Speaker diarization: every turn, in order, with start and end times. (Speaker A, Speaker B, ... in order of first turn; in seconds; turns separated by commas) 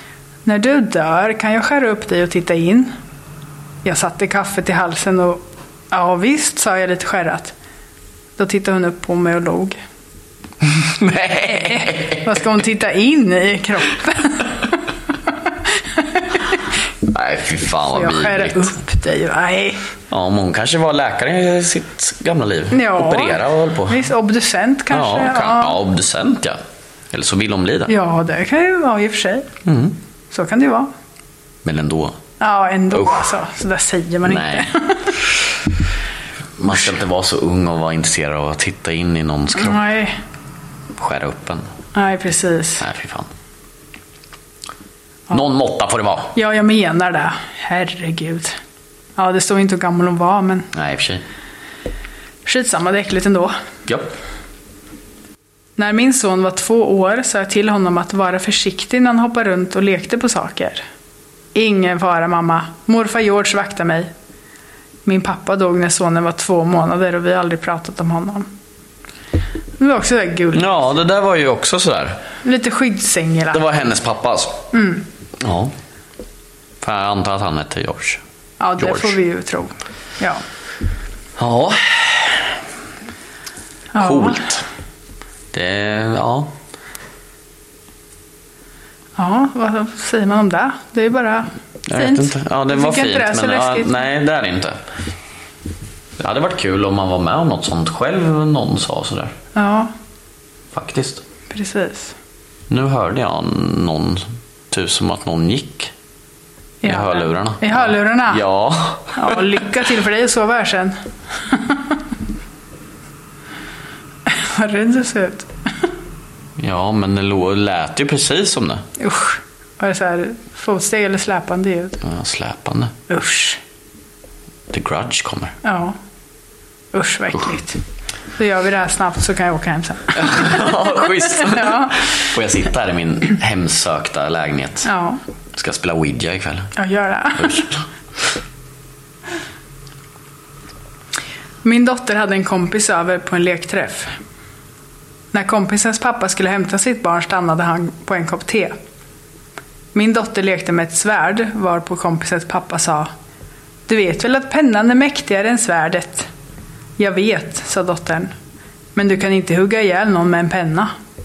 Speaker A: 0.4-2.9, Speaker A: 3.8-7.5, Speaker A: 8.4-9.8, Speaker B: 10.6-12.2, Speaker A: 11.4-14.6, Speaker A: 15.9-16.5, Speaker B: 17.0-18.7, Speaker A: 17.9-19.8, Speaker B: 20.1-24.0, Speaker A: 22.7-25.8, Speaker B: 24.9-26.6, Speaker B: 27.1-27.9, Speaker A: 27.9-29.5, Speaker B: 29.6-30.0, Speaker A: 30.3-30.9, Speaker B: 31.6-32.2, Speaker A: 32.4-35.2, Speaker B: 32.9-33.2, Speaker B: 34.2-34.7, Speaker B: 36.6-39.8, Speaker A: 39.5-40.1, Speaker B: 41.0-41.7, Speaker A: 41.9-42.8, Speaker B: 42.8-43.3, Speaker B: 45.3-46.3, Speaker A: 46.3-48.5, Speaker A: 49.1-50.7, Speaker B: 50.7-51.2, Speaker A: 52.4-53.5, Speaker B: 53.9-54.1, Speaker A: 55.8-60.8, Speaker A: 61.5-64.1, Speaker A: 65.0-68.5, Speaker A: 69.8-70.9, Speaker B: 70.5-72.2, Speaker A: 72.4-73.7, Speaker B: 73.5-74.6, Speaker A: 74.7-75.0, Speaker B: 75.4-75.7, Speaker B: 76.8-78.2, Speaker A: 78.6-80.4, Speaker B: 78.8-79.2, Speaker B: 81.4-82.4, Speaker A: 83.9-84.4, Speaker B: 84.0-84.6, Speaker B: 85.5-86.5, Speaker A: 89.2-94.0, Speaker B: 91.9-94.8, Speaker B: 96.2-99.3, Speaker A: 99.5-99.9, Speaker B: 100.7-101.2, Speaker A: 101.5-102.1, Speaker B: 102.7-105.9, Speaker A: 106.8-108.4, Speaker B: 106.8-109.6, Speaker A: 109.1-110.9, Speaker A: 111.5-111.9, Speaker A: 114.3-115.5, Speaker B: 116.6-118.8, Speaker A: 119.0-122.0, Speaker B: 122.0-122.9, Speaker A: 123.1-123.6, Speaker B: 124.7-125.5, Speaker A: 125.6-126.0, Speaker A: 126.9-127.8, Speaker A: 128.4-131.9, Speaker B: 130.1-134.9, Speaker A: 134.8-135.2, Speaker B: 135.5-136.7, Speaker A: 136.8-137.7, Speaker B: 137.3-137.8, Speaker A: 141.6-144.1, Speaker A: 145.3-148.7, Speaker A: 149.9-153.1, Speaker A: 153.9-156.3, Speaker A: 157.0-158.3, Speaker A: 158.9-160.9